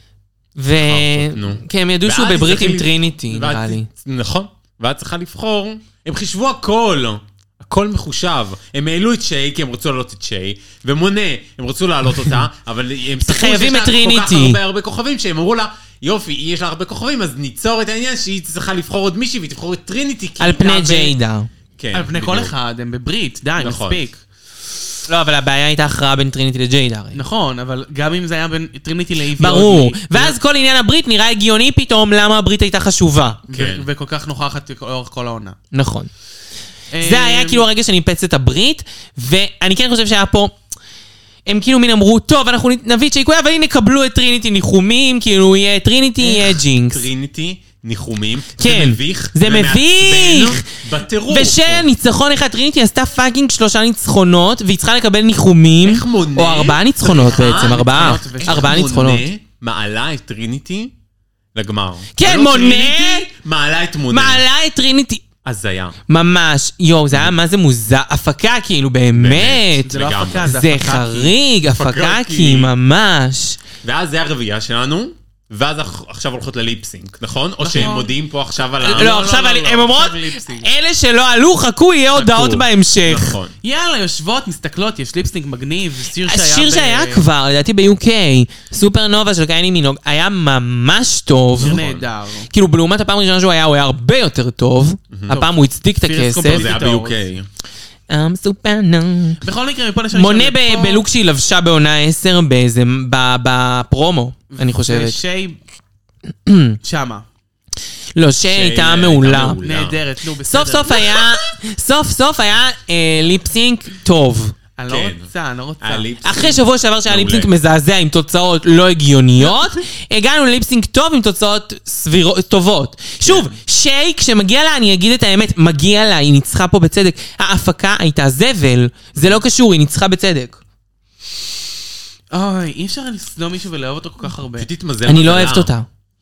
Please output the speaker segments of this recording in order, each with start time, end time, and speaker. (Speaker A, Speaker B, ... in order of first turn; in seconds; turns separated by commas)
Speaker A: 0.6-3.9, Speaker B: 0.8-21.1, Speaker A: 13.2-14.6, Speaker A: 20.4-21.5, Speaker B: 21.8-22.6, Speaker C: 21.9-24.2, Speaker B: 23.6-24.0, Speaker A: 25.1-27.2, Speaker C: 27.1-30.4, Speaker A: 29.4-33.4, Speaker C: 33.5-35.6, Speaker B: 33.5-33.9, Speaker A: 35.7-36.1, Speaker C: 36.9-37.6, Speaker A: 37.0-40.5, Speaker A: 41.5-47.0, Speaker B: 46.8-51.9, Speaker A: 48.6-50.7, Speaker A: 51.3-59.2, Speaker B: 55.8-60.9, Speaker C: 57.3-58.8, Speaker B: 61.5-64.4, Speaker A: 62.2-63.3, Speaker A: 64.1-65.2, Speaker B: 65.4-66.0, Speaker A: 66.1-69.9, Speaker B: 69.2-70.6, Speaker C: 69.9-71.3, Speaker A: 70.5-73.6, Speaker B: 71.7-72.7, Speaker B: 73.8-79.2, Speaker C: 77.6-80.7, Speaker A: 78.8-83.4, Speaker B: 82.2-83.5, Speaker C: 83.6-87.3, Speaker A: 86.2-91.8, Speaker B: 91.6-92.1, Speaker C: 91.6-92.5, Speaker A: 92.5-96.7, Speaker B: 95.1-95.4, Speaker C: 95.3-97.2, Speaker B: 96.5-97.5, Speaker A: 98.1-99.4, Speaker C: 99.4-101.0, Speaker A: 100.1-105.2, Speaker C: 104.5-105.6, Speaker A: 106.5-106.8, Speaker C: 106.8-107.2, Speaker A: 108.2-109.6, Speaker B: 108.5-110.0, Speaker C: 109.6-111.2, Speaker A: 110.5-114.6, Speaker C: 114.8-116.5, Speaker B: 114.9-115.3, Speaker B: 115.8-117.5, Speaker A: 116.2-130.6, Speaker B: 123.2-123.5, Speaker C: 132.3-134.7, Speaker B: 134.6-135.7, Speaker A: 135.1-135.9